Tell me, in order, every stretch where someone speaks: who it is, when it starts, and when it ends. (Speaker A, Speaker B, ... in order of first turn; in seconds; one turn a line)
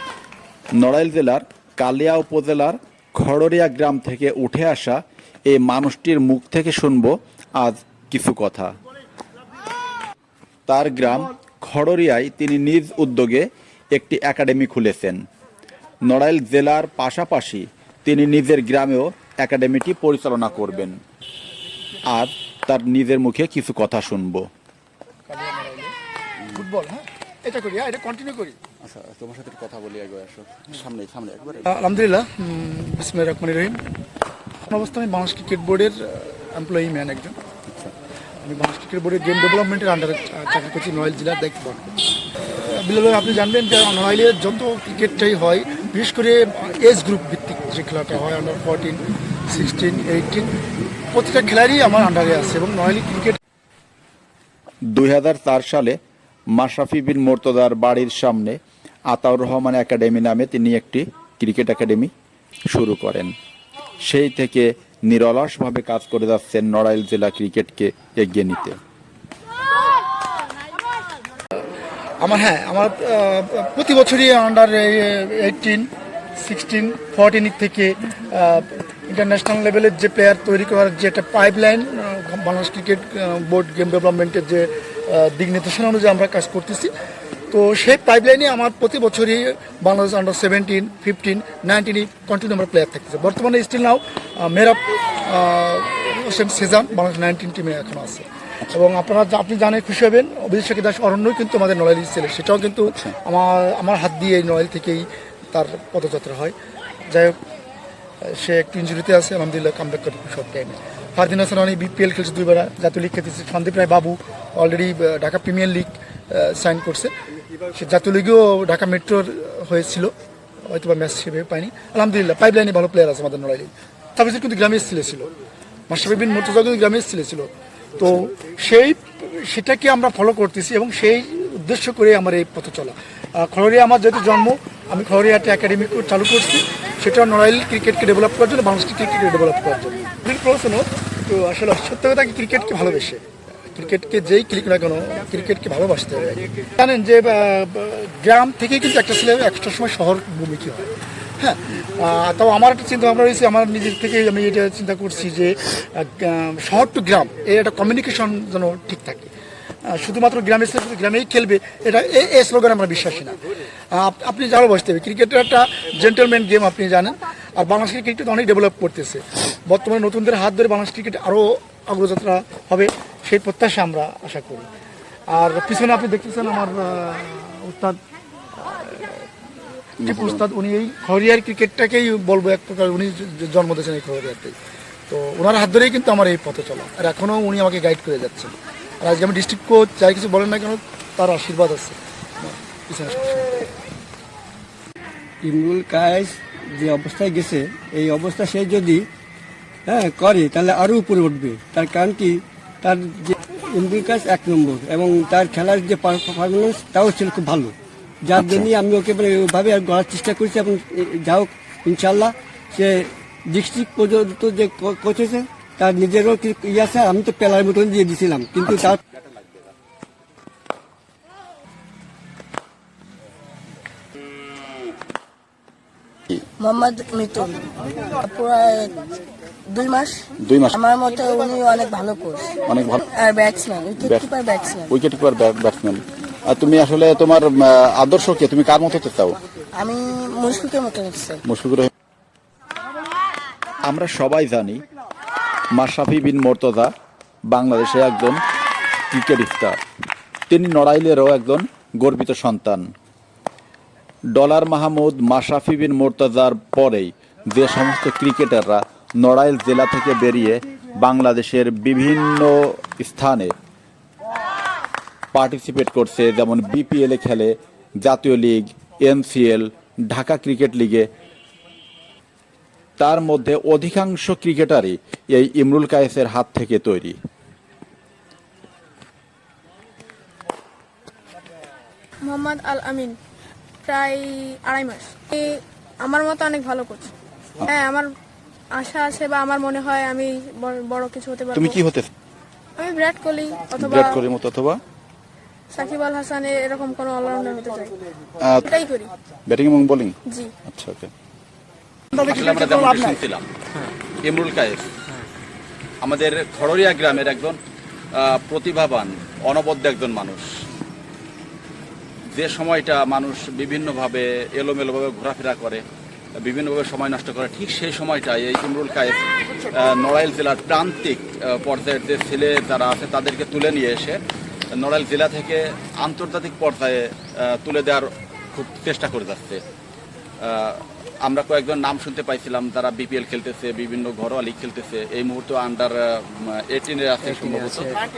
Speaker A: 0.7-8.7
Speaker A: 10.7-15.2
Speaker A: 16.0-21.0
Speaker A: 22.1-24.4
Speaker B: 25.3-25.9
Speaker B: 26.5-28.6
Speaker A: 28.8-31.6
Speaker B: 31.7-33.8
Speaker B: 34.6-37.4
Speaker B: 38.4-50.5
Speaker B: 51.1-53.4
Speaker A: 54.9-56.0
Speaker A: 56.5-62.1
Speaker A: 62.7-63.3
Speaker A: 64.0-68.8
Speaker B: 72.2-86.9
Speaker B: 87.5-106.5
Speaker B: 107.1-107.4
Speaker B: 108.2-117.1
Speaker B: 117.7-120.1
Speaker B: 120.7-125.3
Speaker B: 125.9-159.3
Speaker B: 159.8-163.4
Speaker B: 163.9-174.7
Speaker B: 175.3-178.0
Speaker B: 178.5-179.3
Speaker A: 180.0-180.4
Speaker B: 180.0-184.6
Speaker B: 185.1-193.7
Speaker C: 195.4-199.0
Speaker C: 199.8-219.0
Speaker A: 208.4-208.7
Speaker D: 226.4-229.2
Speaker D: 229.7-234.9
Speaker A: 230.4-230.8
Speaker A: 232.7-233.0
Speaker A: 234.0-234.3
Speaker A: 234.9-239.4
Speaker D: 239.7-241.4
Speaker A: 241.4-241.9
Speaker A: 243.8-244.8
Speaker A: 245.7-246.9
Speaker A: 247.5-248.4
Speaker A: 249.1-249.8
Speaker A: 250.5-252.9
Speaker A: 254.3-263.5
Speaker A: 265.3-271.1
Speaker A: 273.0-277.2
Speaker E: 282.2-283.2
Speaker E: 283.8-287.1
Speaker E: 287.6-288.1
Speaker E: 288.7-291.8
Speaker A: 291.5-292.1
Speaker E: 292.8-294.2
Speaker A: 293.8-294.8
Speaker E: 295.7-297.9
Speaker A: 298.4-298.7
Speaker E: 298.7-299.1
Speaker A: 299.5-300.1
Speaker A: 300.6-301.1
Speaker B: 302.1-303.2
Speaker A: 302.3-303.4
Speaker A: 304.2-304.9
Speaker A: 306.0-307.6
Speaker A: 308.2-310.4
Speaker A: 312.3-315.8
Speaker A: 316.4-324.2
Speaker A: 324.7-329.6
Speaker A: 330.4-337.9